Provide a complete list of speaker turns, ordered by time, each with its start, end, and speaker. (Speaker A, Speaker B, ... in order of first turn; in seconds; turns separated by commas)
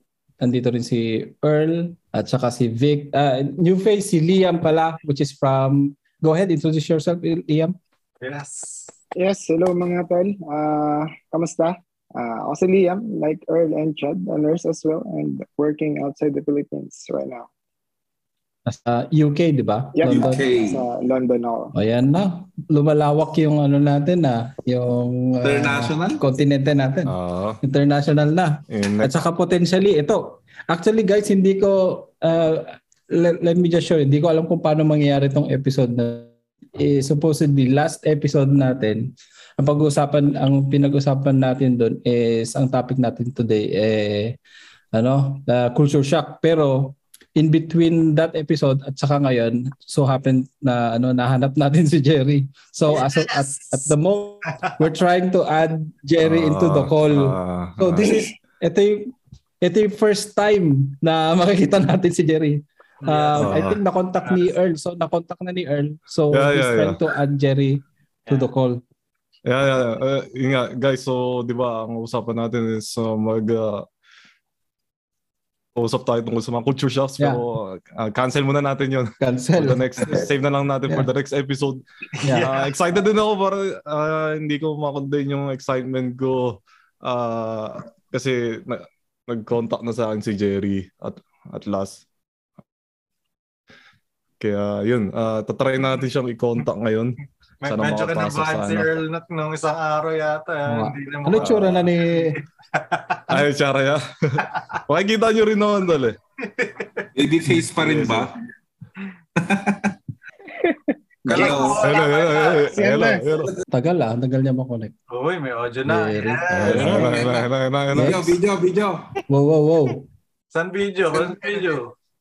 Speaker A: 0.4-7.8, Speaker B: 8.2-8.9, Speaker C: 9.2-17.5, Speaker A: 18.7-20.4, Speaker C: 19.9-21.7, Speaker D: 20.0-20.8, Speaker A: 21.7-44.4, Speaker D: 25.4-26.2, Speaker E: 27.1-27.6, Speaker E: 28.7-29.1, Speaker A: 44.9-68.8, Speaker B: 52.9-53.2, Speaker E: 56.2-58.2, Speaker B: 63.0-63.7, Speaker E: 63.4-63.8, Speaker B: 64.2-64.5, Speaker E: 66.3-67.0, Speaker E: 69.5-73.8, Speaker E: 75.8-81.8, Speaker A: 79.2-80.2, Speaker B: 82.2-82.7, Speaker A: 82.2-82.5, Speaker E: 82.4-92.0, Speaker E: 94.4-98.9, Speaker B: 97.6-101.9, Speaker A: 100.7-102.4, Speaker E: 101.4-101.8, Speaker B: 102.8-103.4, Speaker E: 103.3-106.2, Speaker B: 106.5-107.1, Speaker D: 107.1-108.3, Speaker E: 107.5-108.3, Speaker D: 109.4-109.9, Speaker C: 110.6-111.8, Speaker D: 111.3-111.9, Speaker B: 111.3-112.8, Speaker E: 111.8-113.5, Speaker C: 112.7-113.2, Speaker A: 113.7-114.9, Speaker B: 115.1-117.4, Speaker A: 115.8-117.2, Speaker E: 116.5-118.4, Speaker D: 116.6-119.2, Speaker A: 117.9-118.3, Speaker A: 119.3-120.0, Speaker B: 120.5-121.9